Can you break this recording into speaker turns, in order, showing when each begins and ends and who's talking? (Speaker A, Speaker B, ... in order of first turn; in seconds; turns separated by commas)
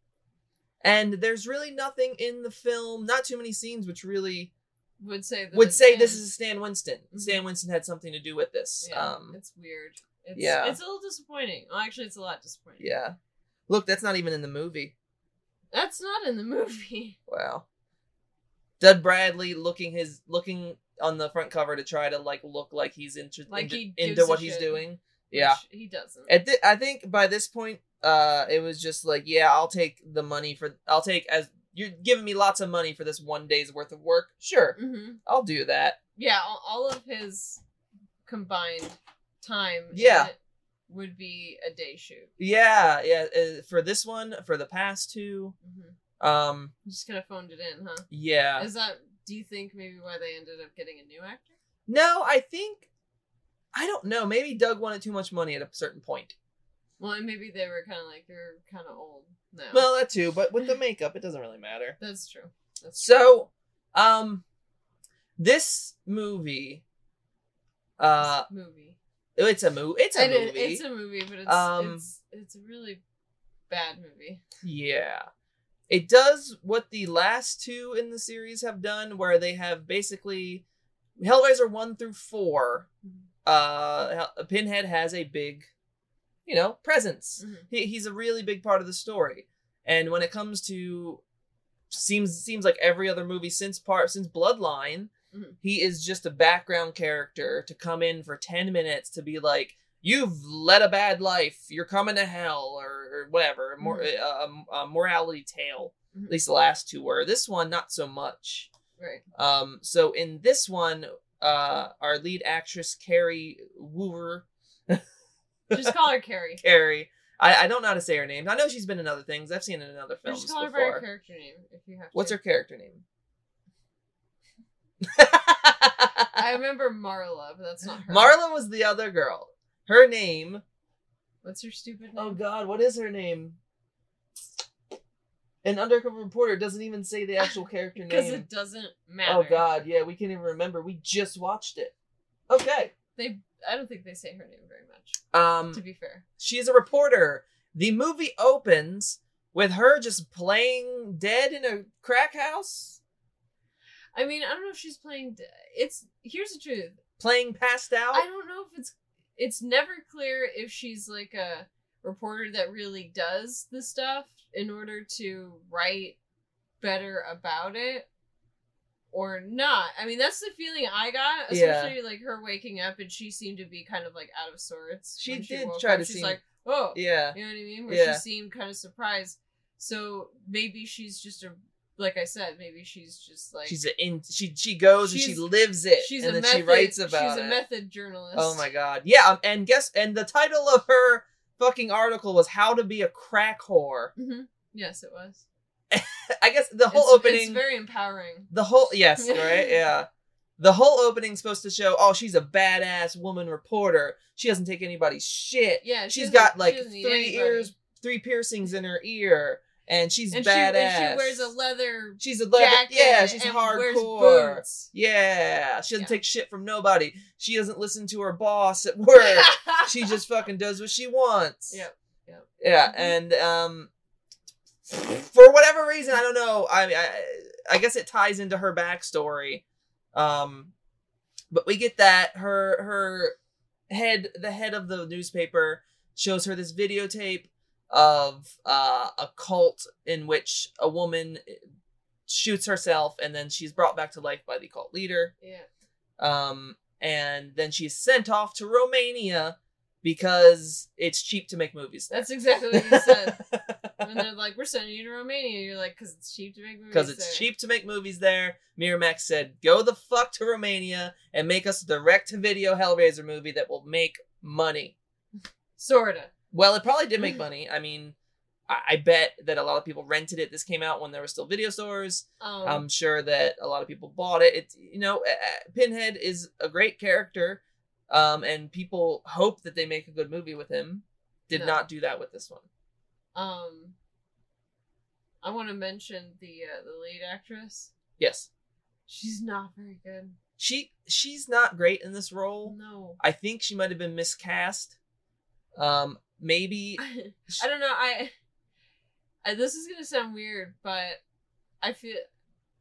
Speaker A: 0.8-4.5, Speaker B: 5.0-6.2, Speaker A: 5.5-9.4, Speaker B: 7.1-7.4, Speaker B: 8.8-12.9, Speaker A: 10.4-10.8, Speaker A: 12.8-13.2, Speaker A: 13.7-14.9, Speaker B: 15.7-17.2, Speaker A: 17.3-17.6, Speaker A: 18.8-25.6, Speaker B: 23.5-26.3, Speaker A: 26.3-36.0, Speaker B: 34.8-35.2, Speaker B: 36.2-37.6, Speaker B: 38.3-40.4, Speaker A: 39.9-40.3, Speaker B: 40.9-42.3, Speaker A: 42.4-45.5, Speaker B: 45.6-46.0, Speaker A: 46.2-46.7, Speaker B: 46.9-51.6, Speaker A: 48.1-48.7, Speaker A: 51.9-52.9, Speaker A: 53.7-56.4, Speaker B: 57.0-59.9, Speaker A: 59.7-62.0, Speaker B: 62.0-63.3, Speaker A: 63.0-64.4, Speaker A: 65.4-66.8, Speaker A: 68.0-68.5, Speaker B: 68.2-69.0, Speaker A: 69.4-70.8, Speaker B: 70.2-73.0, Speaker A: 71.5-72.0, Speaker B: 73.7-74.4, Speaker A: 74.6-75.3, Speaker A: 75.9-80.6, Speaker A: 81.2-82.9, Speaker A: 83.5-85.7, Speaker A: 86.5-91.2, Speaker B: 87.4-87.7, Speaker A: 91.9-95.1, Speaker A: 95.6-108.7, Speaker B: 103.8-104.1, Speaker B: 109.0-109.2, Speaker A: 109.3-115.0, Speaker B: 115.7-116.6, Speaker A: 116.6-121.0, Speaker B: 120.3-122.4, Speaker A: 122.1-123.0, Speaker A: 125.0-126.3, Speaker B: 126.3-128.3, Speaker A: 128.1-130.6, Speaker B: 131.4-132.4, Speaker A: 132.2-133.6, Speaker A: 135.6-138.5, Speaker B: 137.4-139.6, Speaker A: 139.3-141.9, Speaker A: 142.5-142.9, Speaker B: 143.2-145.2, Speaker A: 145.3-145.8, Speaker B: 145.7-146.2, Speaker A: 146.4-153.0, Speaker B: 154.2-157.0, Speaker A: 157.2-158.2, Speaker B: 158.1-166.2, Speaker B: 166.8-168.1, Speaker B: 169.1-183.8, Speaker A: 171.5-171.9, Speaker A: 175.2-176.4, Speaker A: 176.9-177.4, Speaker A: 177.9-178.2, Speaker A: 183.7-187.6, Speaker B: 185.0-185.5, Speaker B: 186.0-188.7, Speaker A: 188.4-194.1, Speaker B: 194.2-195.4, Speaker A: 195.9-197.6, Speaker B: 196.9-198.5, Speaker A: 198.5-200.1, Speaker B: 199.2-199.8, Speaker A: 200.6-211.5, Speaker B: 205.8-207.7, Speaker B: 210.3-214.9, Speaker A: 212.2-221.8, Speaker B: 219.2-220.2, Speaker B: 221.7-223.2, Speaker A: 222.6-223.9, Speaker A: 224.9-229.6, Speaker A: 230.1-230.7, Speaker A: 231.5-233.3, Speaker A: 233.9-241.6, Speaker A: 242.3-245.3, Speaker B: 245.4-245.7, Speaker A: 246.2-254.2, Speaker B: 252.1-253.4, Speaker B: 254.0-257.5, Speaker A: 256.9-264.9, Speaker B: 265.8-266.3, Speaker A: 266.5-268.1, Speaker A: 268.7-282.6, Speaker B: 272.4-272.9, Speaker B: 281.5-281.8, Speaker B: 283.4-283.9, Speaker B: 285.4-287.9, Speaker A: 288.2-288.5, Speaker B: 289.1-290.4, Speaker A: 290.6-295.0, Speaker B: 292.6-293.2, Speaker A: 295.8-297.6, Speaker B: 297.0-298.3, Speaker B: 299.4-301.2, Speaker B: 301.8-302.3